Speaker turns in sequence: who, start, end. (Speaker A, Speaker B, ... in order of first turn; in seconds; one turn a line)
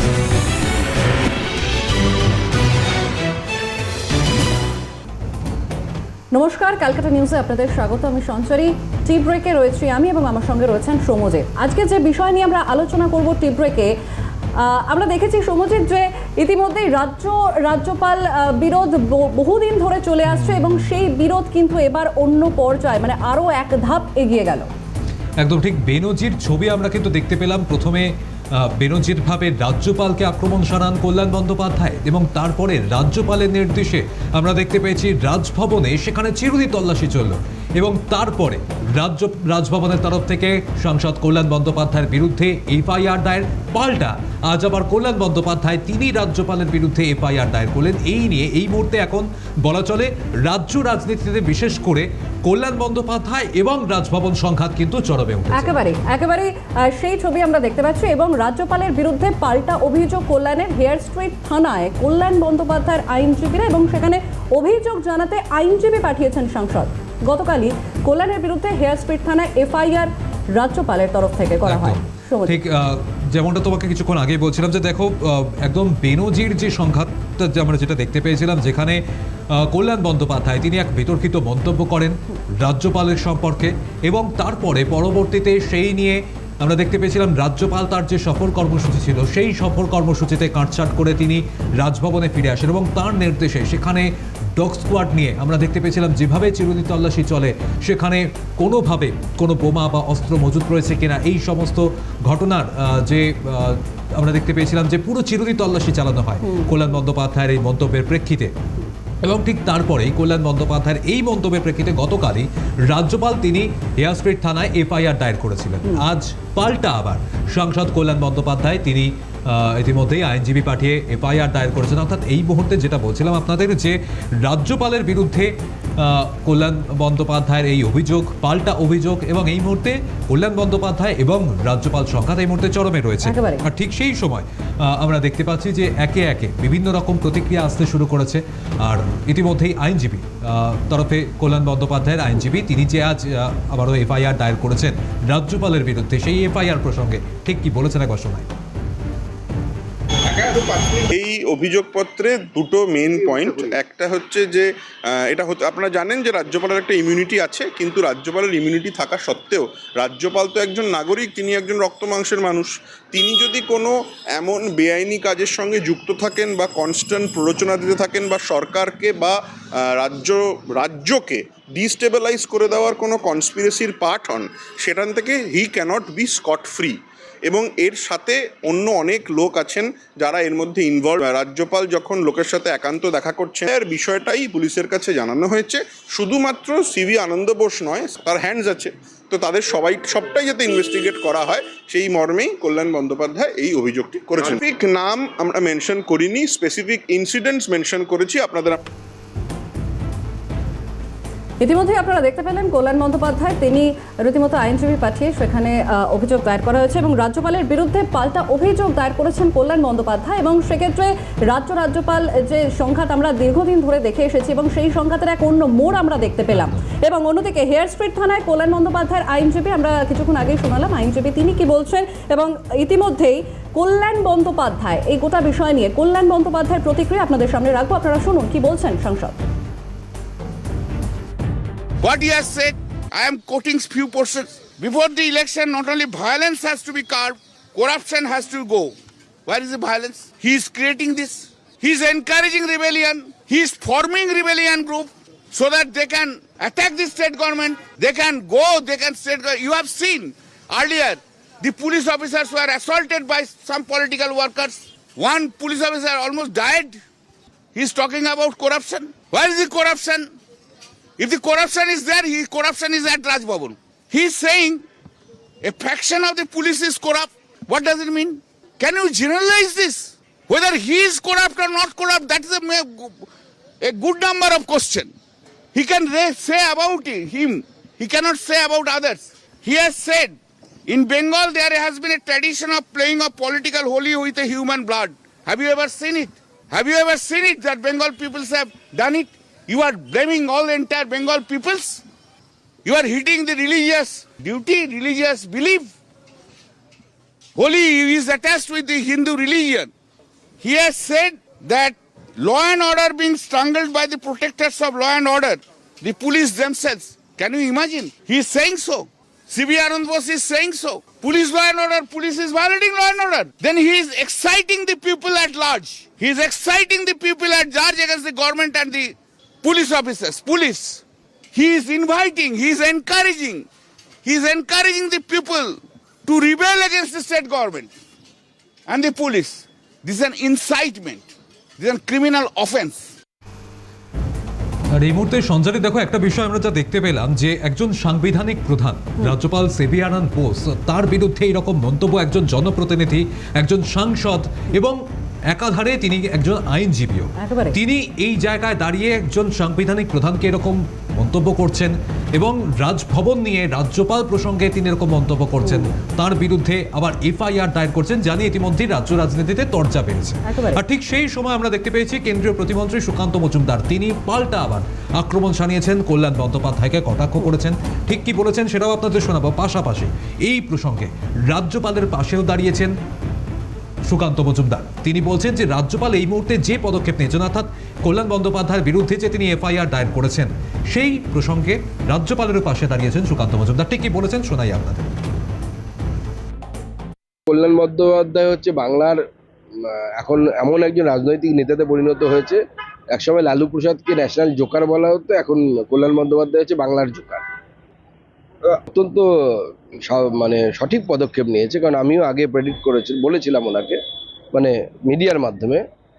Speaker A: 6.3-13.9
Speaker A: 14.6-24.7
Speaker B: 20.3-20.9
Speaker B: 25.4-55.7
Speaker A: 55.5-72.6
Speaker B: 71.7-79.0
Speaker B: 79.5-108.5
Speaker A: 106.4-106.9
Speaker B: 109.2-148.5
Speaker A: 133.2-133.7
Speaker C: 150.3-151.1
Speaker D: 151.1-198.8
Speaker A: 201.6-229.4
Speaker C: 232.0-238.9
Speaker C: 239.5-257.0
Speaker C: 257.8-260.3
Speaker C: 261.2-264.8
Speaker C: 265.6-273.3
Speaker C: 273.8-275.1
Speaker C: 275.8-280.4
Speaker C: 280.9-292.0
Speaker C: 292.9-295.9
Speaker C: 297.6-299.9
Speaker C: 300.6-321.0
Speaker C: 321.5-323.7
Speaker C: 324.2-327.9
Speaker C: 328.9-333.0
Speaker B: 334.9-345.0
Speaker B: 345.5-372.9
Speaker A: 347.4-347.8
Speaker A: 360.4-360.8
Speaker B: 374.1-385.1
Speaker E: 387.5-389.2
Speaker E: 389.8-392.6
Speaker E: 393.1-397.4
Speaker E: 398.7-404.0
Speaker E: 404.5-405.8